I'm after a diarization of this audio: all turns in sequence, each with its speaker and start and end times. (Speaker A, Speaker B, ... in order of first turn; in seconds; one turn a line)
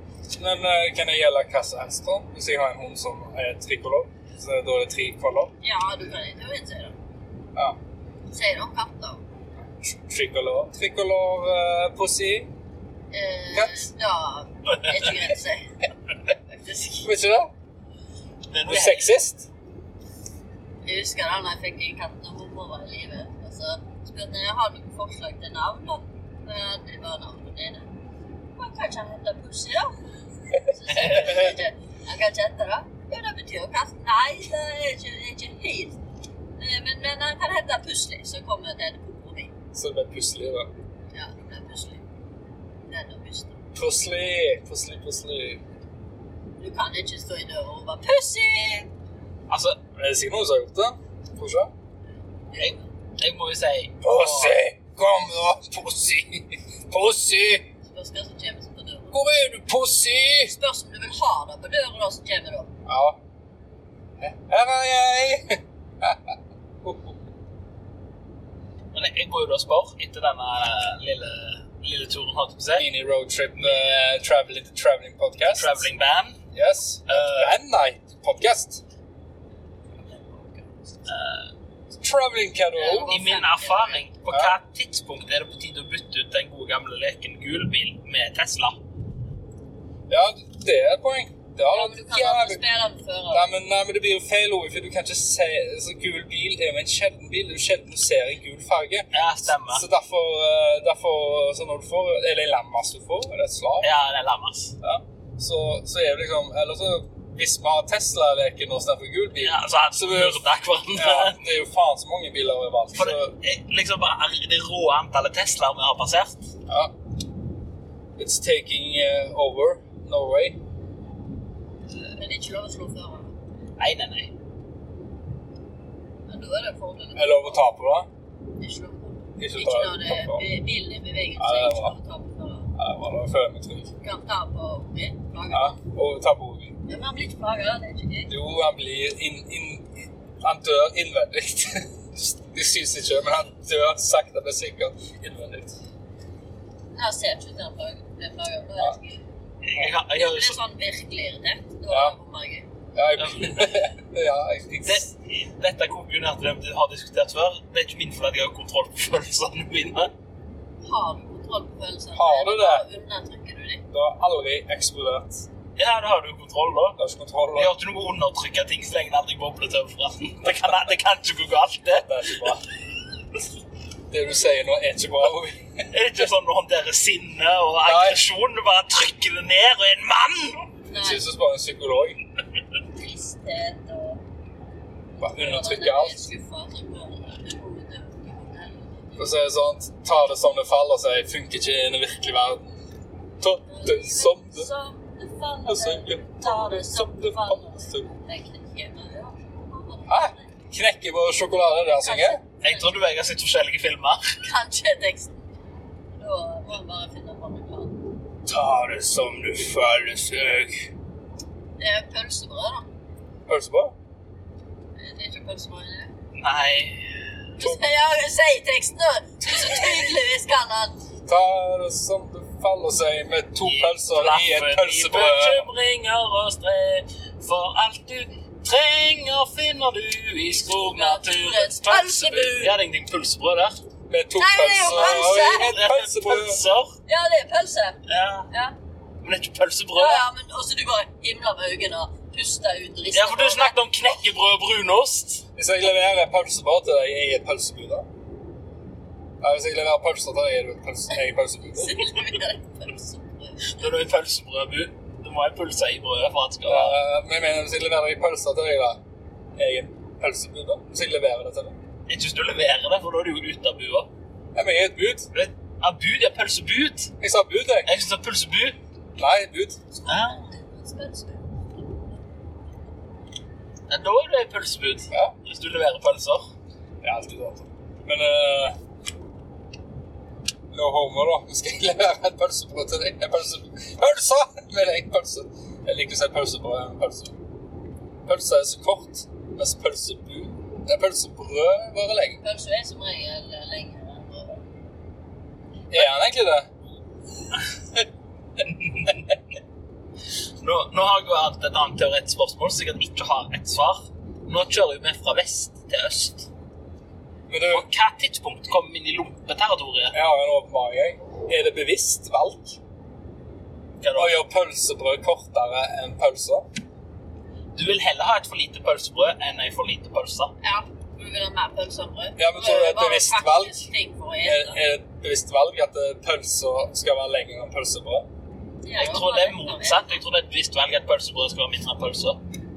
Speaker A: 0.3-5.5
Speaker B: 5.6-7.0
Speaker B: 8.3-9.2
Speaker A: 9.8-12.5
Speaker B: 13.1-15.7
Speaker A: 13.5-13.9
Speaker B: 16.5-17.1
Speaker A: 17.0-17.5
Speaker C: 18.5-19.1
Speaker A: 18.6-19.5
Speaker B: 20.8-27.9
Speaker B: 28.6-29.9
Speaker B: 30.6-36.0
Speaker C: 30.9-31.3
Speaker B: 36.6-39.5
Speaker A: 39.7-40.7
Speaker B: 41.1-42.0
Speaker B: 42.9-43.6
Speaker A: 43.8-45.6
Speaker B: 46.6-48.9
Speaker C: 49.5-49.8
Speaker A: 50.0-51.7
Speaker B: 52.5-52.8
Speaker C: 52.6-54.6
Speaker A: 54.0-57.6
Speaker B: 57.9-59.2
Speaker A: 59.1-60.5
Speaker B: 60.5-62.7
Speaker A: 62.9-63.2
Speaker A: 64.2-67.2
Speaker C: 68.9-72.9
Speaker A: 72.8-75.9
Speaker C: 75.5-76.4
Speaker A: 76.5-78.8
Speaker C: 77.1-77.6
Speaker B: 80.1-80.6
Speaker C: 81.1-81.5
Speaker A: 82.0-83.1
Speaker B: 82.8-84.0
Speaker C: 83.0-88.8
Speaker A: 84.3-84.6
Speaker A: 90.1-92.6
Speaker B: 91.7-93.5
Speaker A: 93.3-99.1
Speaker C: 99.1-99.8
Speaker A: 99.7-103.9
Speaker C: 103.8-104.7
Speaker A: 104.8-113.3
Speaker C: 109.4-111.4
Speaker C: 113.0-116.5
Speaker A: 116.7-116.9
Speaker A: 118.2-120.6
Speaker B: 122.1-123.3
Speaker C: 123.8-124.3
Speaker B: 126.3-127.6
Speaker A: 127.2-128.1
Speaker B: 128.6-132.7
Speaker A: 129.4-130.5
Speaker A: 131.4-131.9
Speaker A: 132.8-133.9
Speaker B: 134.0-135.8
Speaker A: 135.5-136.8
Speaker B: 136.9-138.3
Speaker A: 138.3-145.8
Speaker B: 146.9-149.2
Speaker C: 149.6-150.6
Speaker B: 150.2-152.7
Speaker A: 151.9-152.2
Speaker A: 152.9-155.1
Speaker C: 153.2-153.7
Speaker C: 154.8-160.1
Speaker B: 160.8-163.8
Speaker A: 162.1-162.8
Speaker A: 163.9-165.5
Speaker C: 165.8-167.0
Speaker A: 167.0-167.7
Speaker C: 167.5-172.5
Speaker A: 172.0-172.6
Speaker A: 174.1-175.9
Speaker C: 175.9-180.7
Speaker A: 177.8-178.2
Speaker B: 180.9-181.2
Speaker A: 180.9-182.2
Speaker B: 182.9-184.2
Speaker A: 185.2-186.3
Speaker B: 185.2-189.2
Speaker A: 189.2-192.7
Speaker A: 193.4-194.7
Speaker B: 193.7-200.5
Speaker A: 195.7-198.1
Speaker A: 200.1-202.4
Speaker B: 202.0-203.0
Speaker C: 202.6-204.3
Speaker B: 204.4-205.5
Speaker B: 206.1-208.0
Speaker A: 208.5-210.9
Speaker B: 211.8-212.9
Speaker A: 213.5-213.9
Speaker B: 215.0-216.1
Speaker C: 216.3-217.0
Speaker B: 217.6-221.0
Speaker A: 221.2-225.7
Speaker C: 223.6-233.8
Speaker B: 230.6-232.8
Speaker A: 234.1-236.6
Speaker B: 234.4-235.7
Speaker C: 234.9-236.9
Speaker B: 237.1-238.8
Speaker C: 238.1-238.5
Speaker C: 239.2-240.2
Speaker B: 239.9-243.8
Speaker C: 243.1-245.4
Speaker A: 245.6-248.1
Speaker A: 249.4-252.0
Speaker B: 251.7-253.9
Speaker C: 253.6-257.0
Speaker A: 256.6-259.0
Speaker A: 259.6-261.8
Speaker C: 262.1-264.1
Speaker A: 264.5-265.3
Speaker C: 265.3-267.1
Speaker A: 267.2-267.9
Speaker C: 267.9-268.8
Speaker A: 269.2-269.8
Speaker B: 269.9-272.1
Speaker C: 270.1-270.5
Speaker C: 273.9-276.5
Speaker A: 277.0-278.8
Speaker A: 280.7-287.4
Speaker A: 288.3-292.4
Speaker B: 292.4-294.6
Speaker A: 295.9-296.7
Speaker C: 298.7-299.2
Speaker C: 300.6-306.5
Speaker A: 307.5-307.9
Speaker C: 307.7-310.1
Speaker A: 310.1-312.8
Speaker C: 314.0-314.4
Speaker A: 314.1-316.6
Speaker C: 317.8-320.5
Speaker B: 320.6-324.8
Speaker A: 322.4-323.8
Speaker A: 324.4-328.3
Speaker B: 328.8-330.2
Speaker C: 329.0-332.4